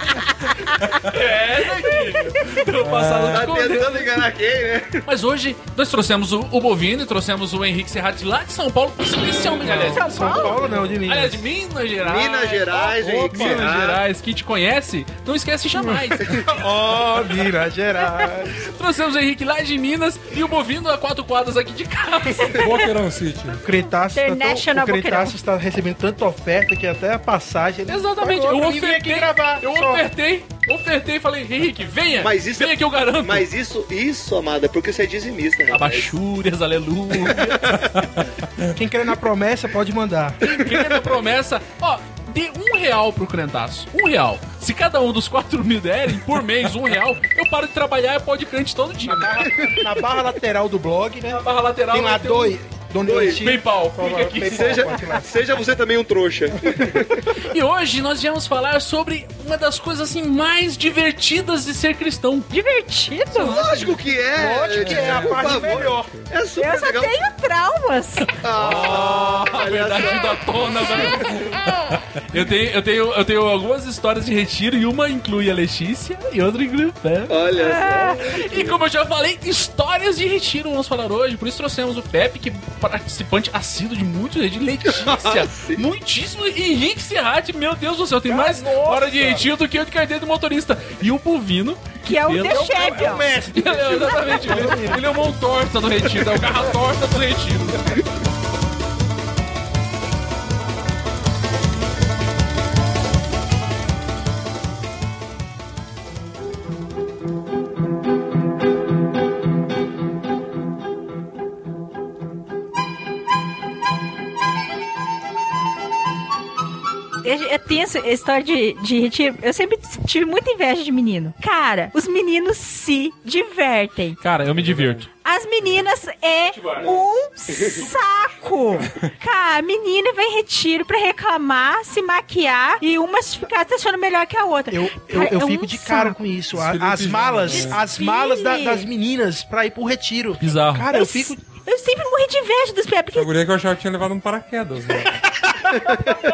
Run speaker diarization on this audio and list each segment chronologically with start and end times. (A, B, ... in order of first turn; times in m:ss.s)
0:01.0-0:04.3 A
0:02.8-0:03.5 B
0:03.3-0:05.0 C
0:05.0-0:16.4 A
0:09.6-0:11.4 D
0:09.9-0:10.6 E
0:12.0-0:14.0 C
0:16.5-0:18.6 D
0:18.5-0:22.7 A
0:22.4-0:22.7 E
0:22.6-0:23.6 B
0:23.6-0:30.1 D
0:24.2-0:25.4 E
0:27.9-0:33.5 A
0:32.2-0:36.1 C
0:35.7-0:37.9 A
0:38.2-0:38.7 B
0:38.8-0:40.4 D
0:40.4-0:49.5 A
0:40.4-0:40.7 C
0:49.0-0:55.3 D
0:51.3-0:52.6 A
0:53.0-0:53.4 C
0:53.3-0:55.0 A
0:54.4-0:57.2 C
0:56.7-0:57.0 D
0:57.4-1:02.5 A
1:02.5-1:03.6 E
1:03.3-1:04.0 A
1:03.4-1:07.2 C
1:04.3-1:06.1 D
1:04.7-1:06.3 B
1:06.6-1:08.3 E
1:08.4-1:11.3 C
1:08.6-1:11.7 A
1:12.3-1:17.4 A
1:17.3-1:18.8 C
1:17.6-1:18.2 E
1:18.2-1:37.9 A
1:24.9-1:25.8 C
1:28.3-1:29.5 D
1:32.0-1:33.3 E
1:32.7-1:35.1 D
1:57.2-2:04.2 E
2:04.2-2:05.1 A
2:04.5-2:05.1 B
2:05.2-2:16.2 E
2:06.5-2:07.0 A
2:14.7-2:21.4 D
2:16.5-2:17.8 B
2:17.5-2:18.9 E
2:20.4-2:20.9 A
2:20.9-2:23.3 E
2:23.1-2:25.2 B